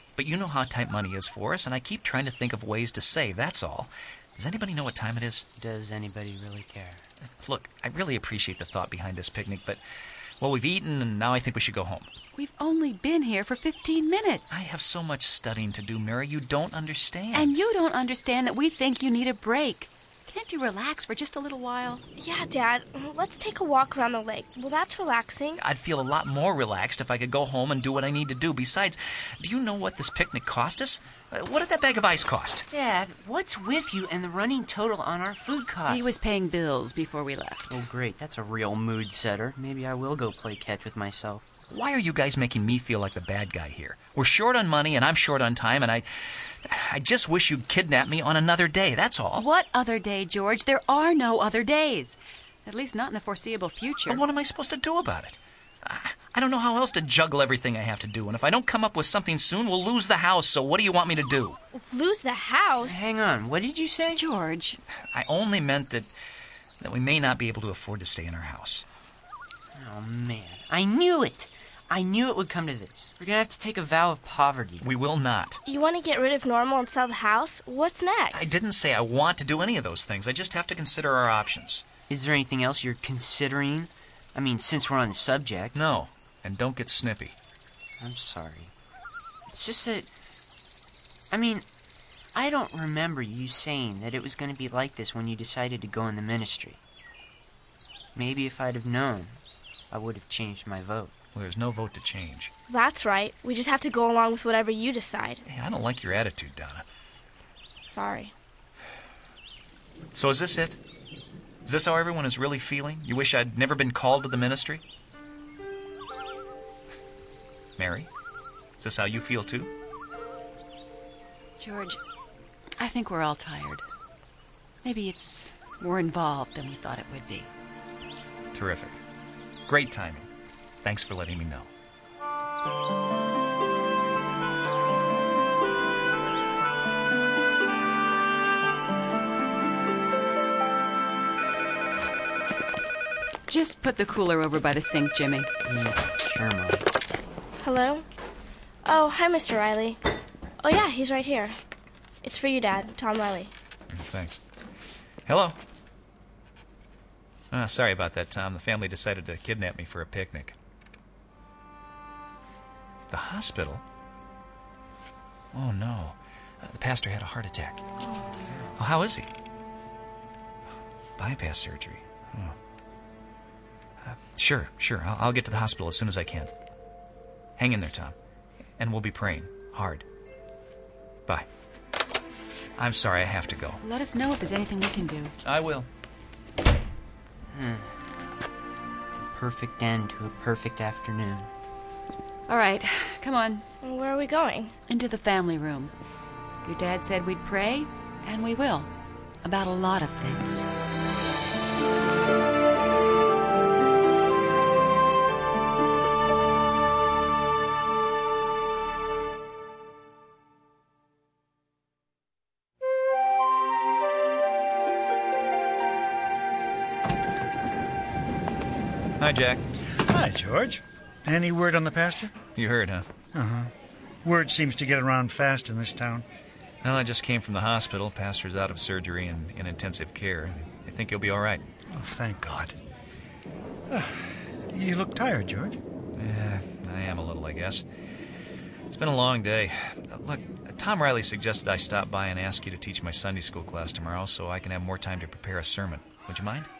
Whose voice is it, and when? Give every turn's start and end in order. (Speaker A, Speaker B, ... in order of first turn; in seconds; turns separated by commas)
Speaker A: 0.2-5.4, Speaker B: 5.6-7.0, Speaker A: 7.3-9.8, Speaker A: 10.4-12.1, Speaker C: 12.3-14.6, Speaker A: 14.5-17.5, Speaker C: 17.3-22.0, Speaker D: 22.2-25.6, Speaker A: 25.6-32.7, Speaker B: 32.7-36.1, Speaker C: 35.9-37.8, Speaker B: 37.7-41.4, Speaker A: 41.7-49.5, Speaker C: 49.4-54.2, Speaker A: 54.1-61.6, Speaker D: 61.8-63.1, Speaker B: 62.8-64.2, Speaker C: 64.1-64.8, Speaker A: 65.1-66.1, Speaker A: 66.8-68.8, Speaker B: 69.7-74.8, Speaker A: 74.8-75.6, Speaker D: 75.6-78.5, Speaker A: 78.3-81.8, Speaker B: 82.1-85.8, Speaker A: 85.7-87.3, Speaker B: 88.0-88.7, Speaker B: 89.5-90.1, Speaker B: 91.3-91.6, Speaker B: 92.3-96.8, Speaker B: 98.1-99.4, Speaker B: 99.9-101.1, Speaker A: 101.3-102.5, Speaker D: 102.7-105.4, Speaker A: 105.5-106.8, Speaker D: 107.8-108.3, Speaker A: 110.1-110.8, Speaker A: 111.6-114.8, Speaker A: 117.8-118.1, Speaker A: 118.8-119.7, Speaker C: 121.6-122.0, Speaker C: 122.8-123.8, Speaker C: 124.8-127.5, Speaker A: 128.5-129.0, Speaker A: 129.7-130.3, Speaker A: 130.8-131.7, Speaker C: 143.5-145.5, Speaker B: 145.6-146.8, Speaker D: 147.6-148.1, Speaker D: 148.8-150.0, Speaker D: 150.6-151.6, Speaker D: 152.2-153.5, Speaker A: 153.9-154.4, Speaker A: 155.2-155.6, Speaker A: 157.5-160.6, Speaker A: 163.1-163.8, Speaker A: 165.5-167.8, Speaker A: 168.8-169.3, Speaker A: 171.2-172.6, Speaker A: 174.0-176.5, Speaker A: 177.6-178.2, Speaker A: 178.8-180.0, Speaker A: 182.8-183.8, Speaker C: 183.8-185.3, Speaker A: 185.4-185.9, Speaker B: 187.5-187.9, Speaker B: 189.3-191.5, Speaker C: 192.5-193.6, Speaker D: 193.8-194.7, Speaker C: 194.9-195.9, Speaker C: 196.6-198.9, Speaker C: 199.4-200.7, Speaker A: 219.2-219.6, Speaker E: 219.9-222.4, Speaker A: 222.6-223.1, Speaker E: 223.3-223.7, Speaker E: 224.2-226.2, Speaker A: 226.8-231.6, Speaker E: 231.9-232.8, Speaker E: 233.9-235.8, Speaker A: 236.2-237.8, Speaker A: 238.9-246.7